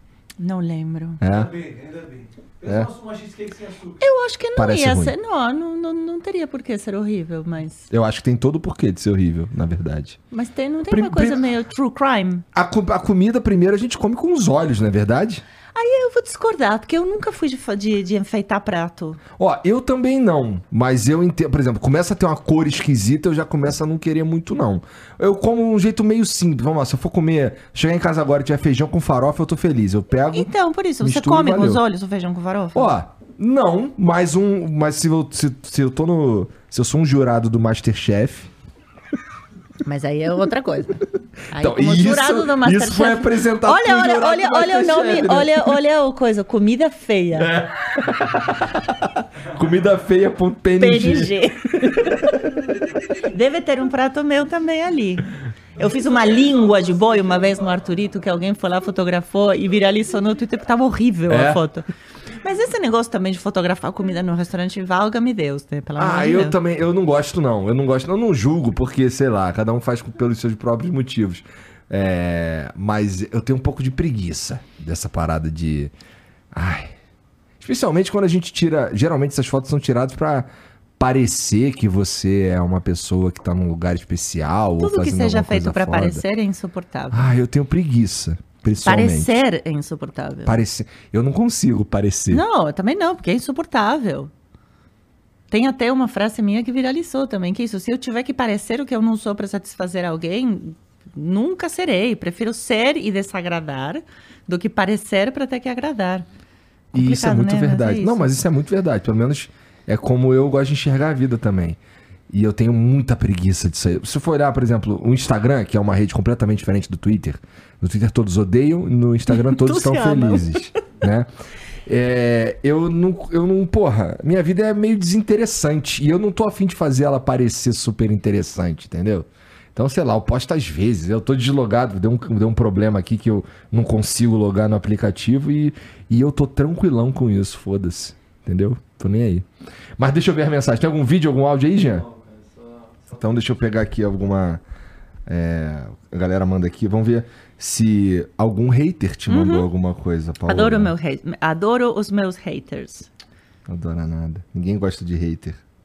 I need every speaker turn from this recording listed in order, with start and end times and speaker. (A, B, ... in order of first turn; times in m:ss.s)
0:00.4-0:01.2 A
0:01.2-0:01.5 B
0:01.3-0:04.0 C
0:04.0-0:07.9 A
0:04.6-0:05.1 B
0:07.9-0:10.2 B
0:10.3-0:12.4 A
0:10.9-0:11.5 B
0:12.6-0:15.4 B
0:15.7-0:19.2 A
0:19.4-0:31.8 B
0:30.3-0:33.0 A
0:32.7-0:38.5 B
0:39.8-0:47.6 A
0:41.6-0:45.8 B
0:47.4-0:52.1 B
0:50.8-0:52.3 A
0:53.3-1:01.9 A
1:01.3-1:01.6 B
1:02.4-1:06.6 A
1:06.0-1:15.9 B
1:16.5-1:16.9 B
1:17.6-1:20.5 B
1:21.0-1:26.2 B
1:24.8-1:27.3 A
1:27.1-1:29.3 B
1:28.8-1:30.6 A
1:30.4-1:32.4 B
1:32.3-1:34.3 A
1:35.5-1:46.3 A
1:46.9-1:48.3 A
1:46.9-1:51.8 B
1:52.3-2:01.3 B
1:59.3-2:00.8 A
2:01.8-2:19.5 B
2:20.0-2:22.1 B
2:22.1-2:22.4 C
2:23.1-2:24.6 B
2:25.3-2:30.9 B
2:29.3-2:29.7 A
2:30.4-2:33.1 A
2:33.7-2:35.6 B